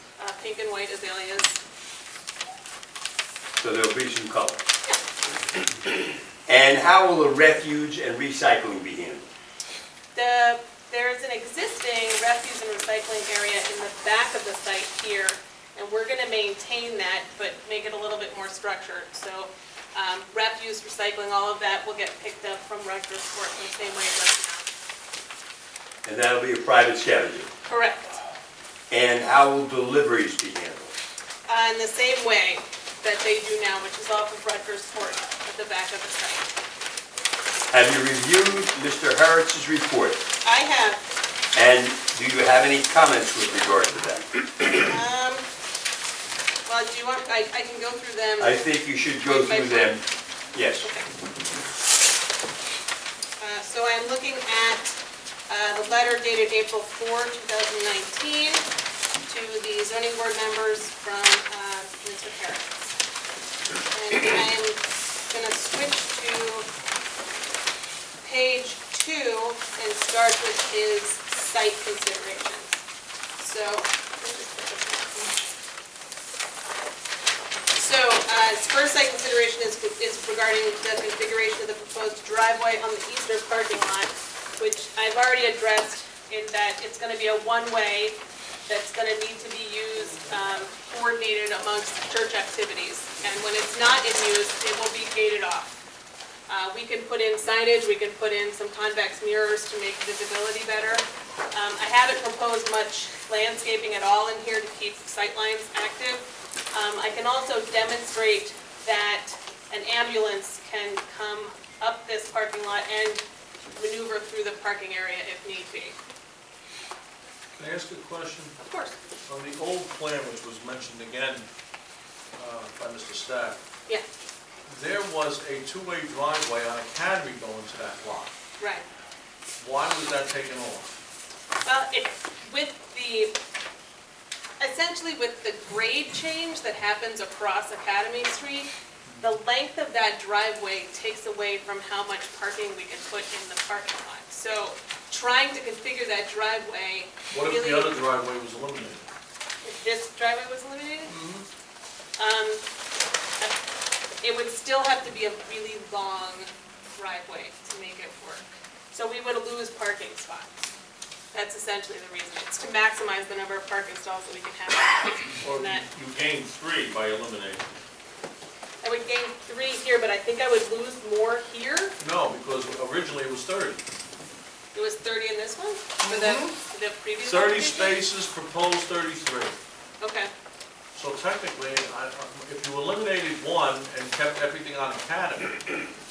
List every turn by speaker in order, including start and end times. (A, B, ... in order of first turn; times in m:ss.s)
0:00.2-0:01.6 A
0:03.6-0:04.6 B
0:06.5-0:09.3 B
0:10.1-0:24.7 A
0:26.0-0:27.5 B
0:27.7-0:28.2 A
0:28.9-0:30.9 B
0:31.5-0:36.5 A
0:37.7-0:40.2 B
0:40.4-0:41.0 A
0:41.5-0:44.2 B
0:44.7-0:45.5 A
0:46.7-0:48.6 A
0:48.4-0:50.0 B
0:49.2-0:50.0 A
0:50.5-0:50.9 B
0:50.8-0:51.1 A
0:53.4-0:55.0 A
0:55.5-0:58.6 A
0:59.3-1:02.7 A
1:03.9-1:06.7 A
1:08.2-1:12.8 A
1:13.4-1:15.4 A
1:17.7-1:35.8 A
1:36.5-1:53.2 A
1:53.8-1:56.0 A
1:57.6-1:58.6 C
1:58.6-1:59.0 A
1:59.3-2:01.5 C
2:02.4-2:03.6 C
2:04.7-2:08.3 C
2:08.6-2:08.8 A
2:09.6-2:10.9 C
2:11.7-2:13.3 A
2:14.6-2:18.7 A
2:19.1-2:19.3 C
2:19.2-2:27.9 A
2:27.3-2:29.1 C
2:29.6-2:31.1 A
2:31.1-2:31.4 C
2:32.2-2:32.6 A
2:34.2-2:40.6 A
2:41.3-2:45.8 A
2:45.4-2:47.6 C
2:48.8-2:52.0 A
2:52.0-2:53.8 C
2:54.7-2:58.0 A
2:56.0-2:56.5 C
2:57.2-2:59.6 C
3:00.0-3:00.3 A
3:01.0-3:05.8 C